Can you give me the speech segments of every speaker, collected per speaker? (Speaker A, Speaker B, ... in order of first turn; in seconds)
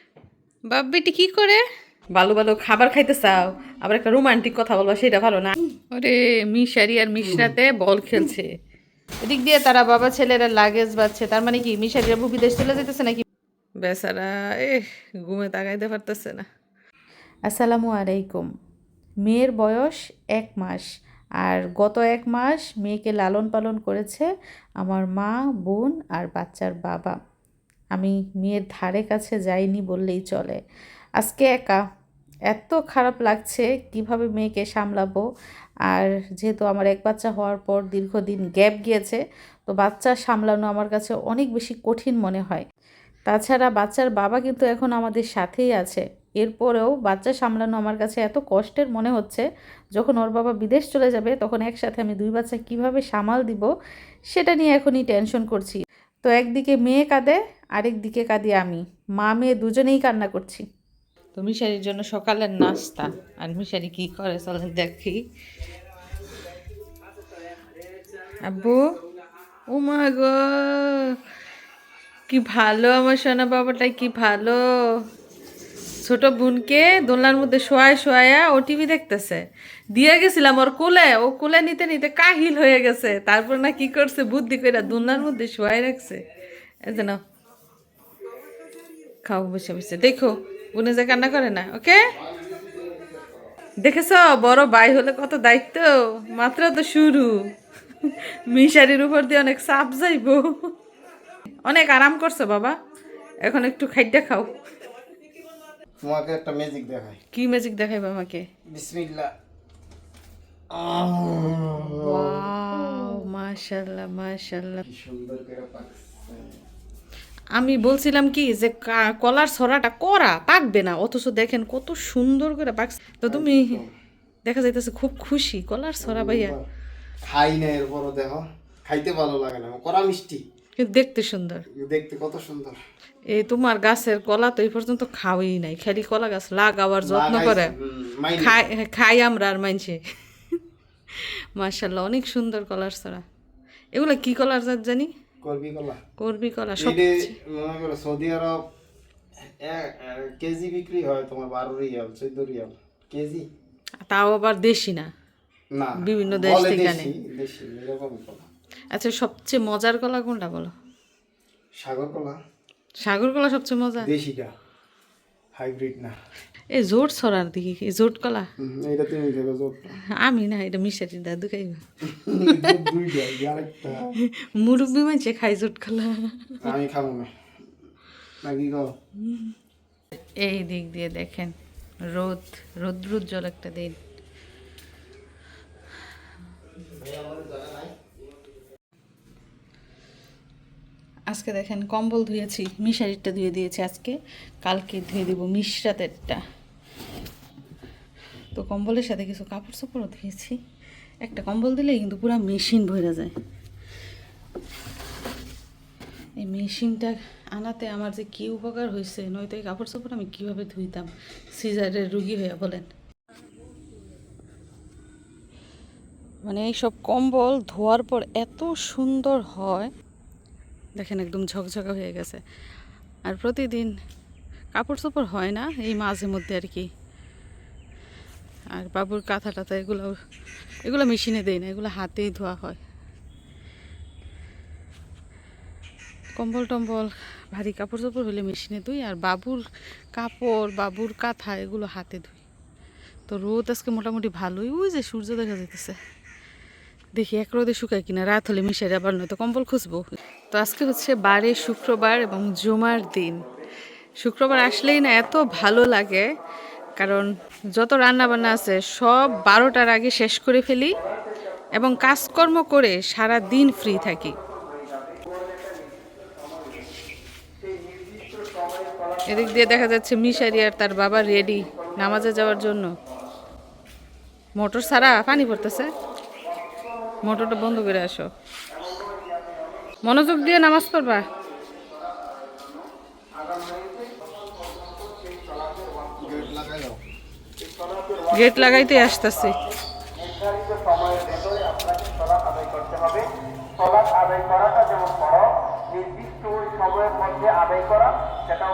Speaker A: 0.7-1.6, 2.1-8.5, 9.2-13.2, 13.8-16.5, 17.5-18.5, 19.2-20.8, 21.4-24.3, 24.8-27.2, 27.9-30.6, 31.2-31.8, 32.5-35.2, 35.9-42.6, 43.3-53.7, 54.3-60.6, 61.3-65.2, 68.2-68.8, 69.7-71.2, 72.3-75.0, 75.9-86.2, 86.8-87.2, 89.2-92.1, 93.8-100.7, 101.6-102.8, 103.4-104.6, 107.3-108.4, 111.9-114.8, 117.5-123.8, 124.5-126.5, 130.8-131.6, 133.3-137.7, 138.4-140.6, 141.1-143.2, 143.9-145.1, 146.2-147.3, 154.0-155.1, 156.0-157.1, 158.9-160.7, 163.0-164.1, 166.7-168.5, 170.2-171.8, 172.5-172.8, 174.2-176.7, 179.2-179.5, 180.4-181.6, 182.1-184.0, 191.3-196.4, 198.5-200.6, 201.2-203.3, 206.4-212.9, 216.4-219.9, 221.0-222.4, 223.2-223.9, 224.7-226.9, 228.7-230.2, 230.8-232.8, 236.3-242.4, 243.3-246.0, 247.1-253.4, 254.2-256.3, 257.0-260.9, 261.7-264.4, 269.2-272.9, 274.6-275.9, 277.2-278.3, 280.0-281.3, 288.3-289.6
Speaker B: 92.2-93.5, 106.0-107.2, 108.7-109.3, 110.7-113.2, 114.8-116.6, 123.3-123.9, 126.0-126.6, 127.3-130.4, 131.7-132.8, 137.0-138.6, 145.4-146.0, 146.8-148.6, 149.4-153.5, 155.7-158.5, 161.8-162.4, 164.0-164.5, 165.5-166.2, 168.6-169.9, 172.1-174.1, 176.6-177.3, 178.4-178.9, 186.9-187.9, 286.1-287.0